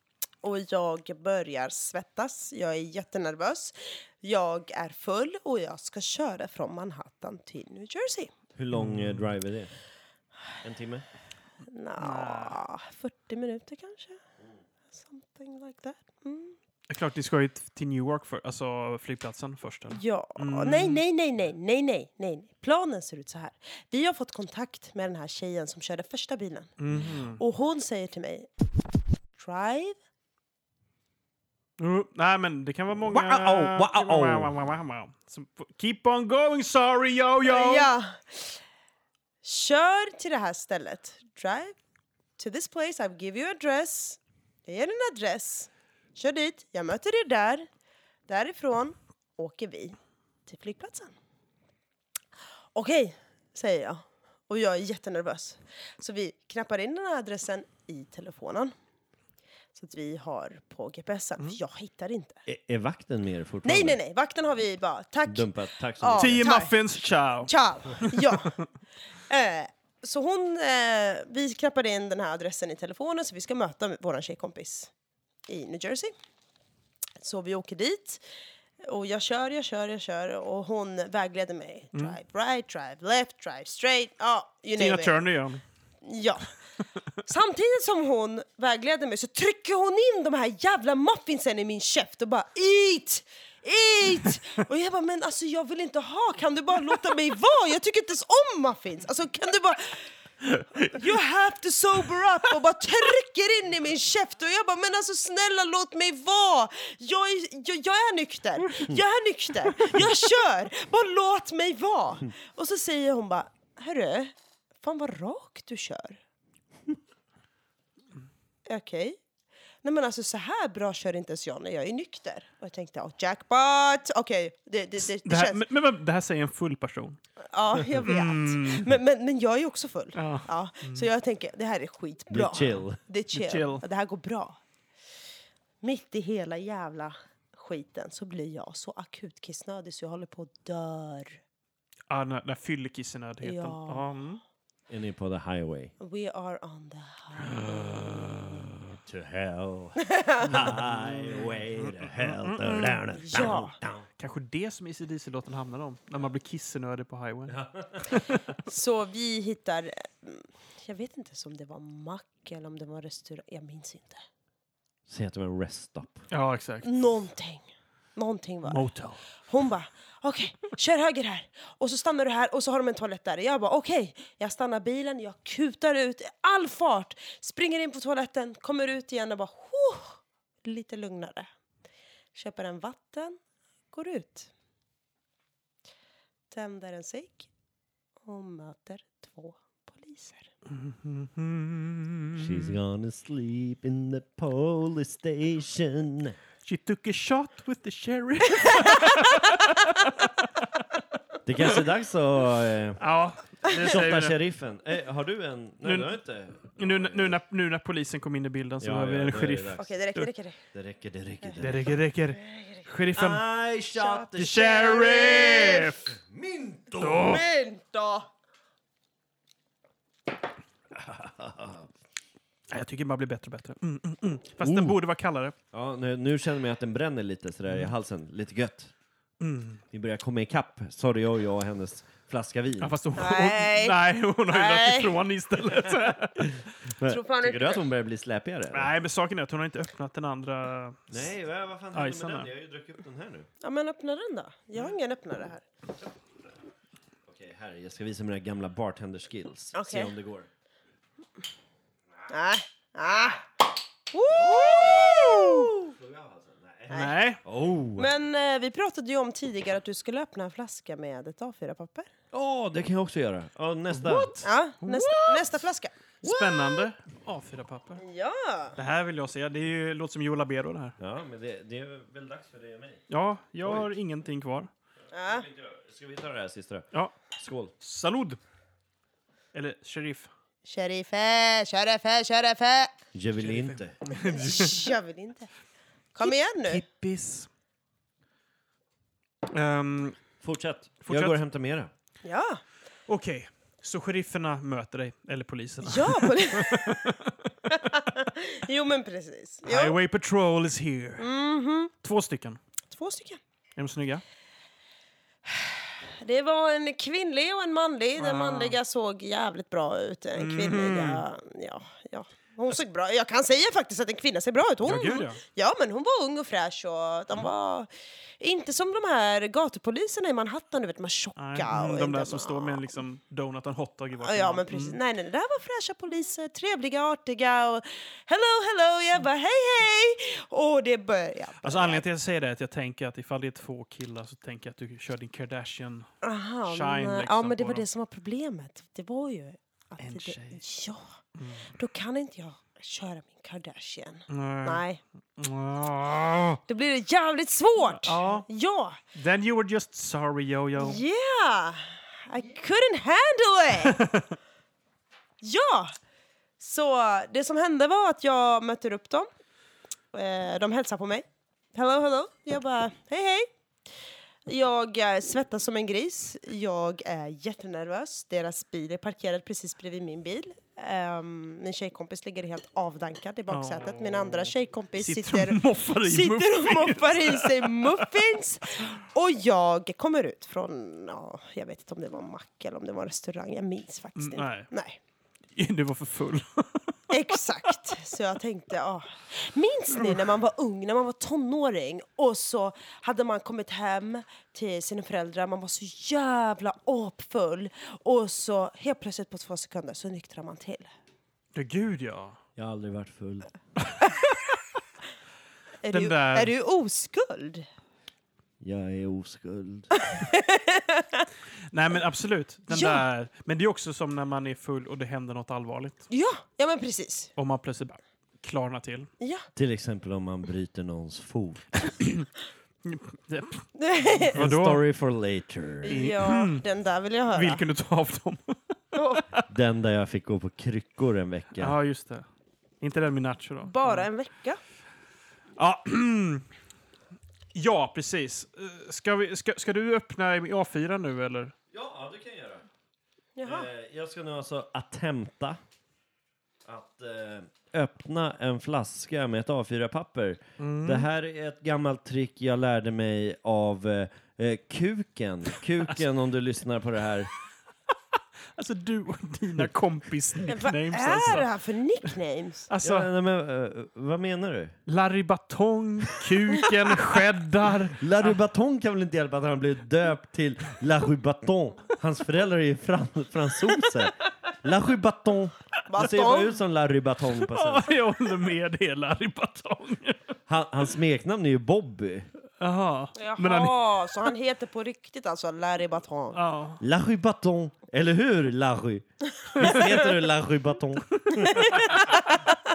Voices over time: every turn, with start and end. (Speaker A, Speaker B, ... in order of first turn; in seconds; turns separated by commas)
Speaker A: 0.4-8.3, Speaker B: 8.6-9.7, Speaker C: 8.7-9.3, Speaker B: 10.6-11.1, Speaker A: 11.6-14.2, Speaker C: 12.0-12.6, Speaker A: 14.9-16.6, Speaker C: 16.9-21.0, Speaker A: 19.9-26.7, Speaker C: 26.8-27.4, Speaker A: 27.3-28.5, Speaker A: 29.4-30.0, Speaker C: 31.8-37.9, Speaker B: 33.1-34.5, Speaker A: 37.4-38.6, Speaker A: 39.4-41.8, Speaker A: 42.4-47.7, Speaker A: 48.3-51.1, Speaker A: 52.8-58.7, Speaker A: 59.7-62.4, Speaker B: 62.5-64.0, Speaker A: 63.6-66.8, Speaker B: 65.3-66.5, Speaker C: 66.2-68.6, Speaker A: 67.5-68.6, Speaker A: 69.3-74.9, Speaker A: 75.5-76.1, Speaker A: 77.2-78.2, Speaker A: 78.8-85.2, Speaker C: 84.8-85.6, Speaker A: 86.0-86.5, Speaker A: 87.2-100.1, Speaker A: 100.8-116.2, Speaker A: 118.7-119.2, Speaker A: 119.8-125.6, Speaker C: 125.0-127.2, Speaker A: 127.5-134.6, Speaker C: 128.0-128.9, Speaker C: 130.2-131.1, Speaker B: 132.3-133.0, Speaker C: 133.3-133.8, Speaker A: 135.8-141.4, Speaker C: 142.1-144.4, Speaker A: 143.4-144.2, Speaker B: 144.9-145.9, Speaker A: 146.0-147.6, Speaker B: 147.6-154.1, Speaker A: 150.0-150.5, Speaker C: 150.6-153.0, Speaker A: 153.2-153.8, Speaker C: 154.2-158.2, Speaker B: 157.5-158.2, Speaker A: 158.7-164.2, Speaker B: 165.1-166.2, Speaker C: 166.3-166.9, Speaker A: 166.8-168.9, Speaker C: 168.7-169.2, Speaker A: 169.4-181.5, Speaker A: 182.3-183.4, Speaker A: 183.9-184.5, Speaker A: 186.5-187.5, Speaker A: 188.2-190.5, Speaker C: 190.7-192.7, Speaker B: 192.3-196.4, Speaker C: 196.7-200.7, Speaker B: 201.4-203.0, Speaker C: 203.0-204.4, Speaker B: 203.8-207.4, Speaker C: 205.8-206.2, Speaker C: 206.7-210.3, Speaker B: 208.8-209.9, Speaker A: 209.8-210.6, Speaker B: 210.7-212.0, Speaker C: 211.6-213.4, Speaker A: 212.4-212.9, Speaker B: 213.2-217.4, Speaker A: 213.9-215.9, Speaker C: 214.4-216.1, Speaker C: 217.0-217.4, Speaker A: 217.2-218.3, Speaker B: 220.9-221.9, Speaker C: 222.7-225.5, Speaker B: 224.6-225.0, Speaker B: 225.7-228.9, Speaker C: 229.4-229.8, Speaker B: 229.9-232.9, Speaker C: 232.8-236.5, Speaker A: 233.2-235.2, Speaker B: 236.4-238.9, Speaker A: 237.1-237.8, Speaker C: 238.7-241.2, Speaker B: 241.1-243.5, Speaker C: 241.9-242.5, Speaker A: 243.6-245.6, Speaker B: 247.3-250.5, Speaker A: 249.7-250.1, Speaker A: 252.3-253.5, Speaker A: 254.1-255.9, Speaker B: 254.3-258.1, Speaker A: 256.9-257.2, Speaker C: 256.9-257.4, Speaker A: 258.0-262.1, Speaker B: 262.3-264.4, Speaker C: 263.9-265.5, Speaker A: 264.4-265.9, Speaker B: 266.2-266.9, Speaker C: 266.2-268.0, Speaker A: 268.0-268.8, Speaker C: 268.8-271.0, Speaker B: 271.0-273.0, Speaker C: 273.1-274.7, Speaker A: 275.1-275.5, Speaker B: 275.2-276.9, Speaker B: 277.4-277.7, Speaker C: 277.8-278.4, Speaker C: 279.5-280.3, Speaker A: 280.6-282.9, Speaker B: 283.1-284.0, Speaker C: 283.4-284.9, Speaker A: 284.1-285.5, Speaker A: 286.1-286.8, Speaker C: 286.2-287.5, Speaker C: 289.5-290.2, Speaker B: 290.4-291.9, Speaker C: 291.1-291.4, Speaker A: 292.2-292.6, Speaker C: 293.1-297.5, Speaker A: 295.8-297.1, Speaker A: 297.7-300.0, Speaker C: 299.7-301.3, Speaker A: 301.2-301.9, Speaker C: 302.0-302.6, Speaker A: 302.9-303.4, Speaker C: 303.8-304.2, Speaker A: 305.5-322.9, Speaker C: 308.2-308.8, Speaker C: 310.4-311.2, Speaker C: 314.8-315.4, Speaker C: 321.4-325.0, Speaker A: 324.2-332.0, Speaker C: 331.6-336.1, Speaker A: 336.2-341.1, Speaker C: 336.7-337.8, Speaker C: 340.0-340.6, Speaker C: 341.4-341.7, Speaker A: 341.7-345.0, Speaker C: 344.3-344.8, Speaker C: 345.4-346.6, Speaker A: 346.7-349.0, Speaker C: 347.9-348.5, Speaker C: 349.1-351.0, Speaker A: 350.8-354.0, Speaker C: 353.9-354.2, Speaker A: 355.4-355.9, Speaker A: 356.6-359.3, Speaker A: 360.1-363.5, Speaker A: 364.5-385.0, Speaker C: 373.5-378.1, Speaker C: 384.2-384.7, Speaker C: 385.6-386.9, Speaker A: 387.1-400.9, Speaker C: 401.5-402.4, Speaker B: 402.6-403.5, Speaker A: 405.8-407.7, Speaker C: 405.9-406.5, Speaker B: 408.6-409.9, Speaker A: 410.0-411.3, Speaker C: 411.7-416.0, Speaker A: 412.7-413.0, Speaker A: 416.1-417.3, Speaker C: 417.4-419.1, Speaker A: 419.2-419.5, Speaker B: 419.6-421.8, Speaker C: 422.0-422.3, Speaker C: 422.9-423.7, Speaker A: 423.8-424.4, Speaker C: 424.3-424.8, Speaker B: 424.3-426.0, Speaker A: 425.8-427.6, Speaker C: 425.9-426.6, Speaker C: 427.3-429.4, Speaker A: 428.9-429.2, Speaker B: 429.5-431.8, Speaker C: 431.6-432.2, Speaker C: 432.8-434.1, Speaker A: 433.7-434.6, Speaker C: 435.6-436.5, Speaker C: 437.5-441.5, Speaker B: 441.7-442.7, Speaker A: 443.4-443.7, Speaker B: 443.4-445.6, Speaker B: 446.6-457.3, Speaker C: 450.6-451.1, Speaker C: 458.6-461.5, Speaker A: 460.5-462.7, Speaker C: 462.7-463.1, Speaker B: 462.8-464.7, Speaker C: 464.9-468.4, Speaker B: 468.0-477.9, Speaker A: 475.9-476.6, Speaker C: 477.4-480.3, Speaker B: 480.5-482.3, Speaker C: 482.6-484.3, Speaker A: 483.2-486.4, Speaker C: 486.3-486.8, Speaker B: 486.8-491.9, Speaker A: 491.5-492.3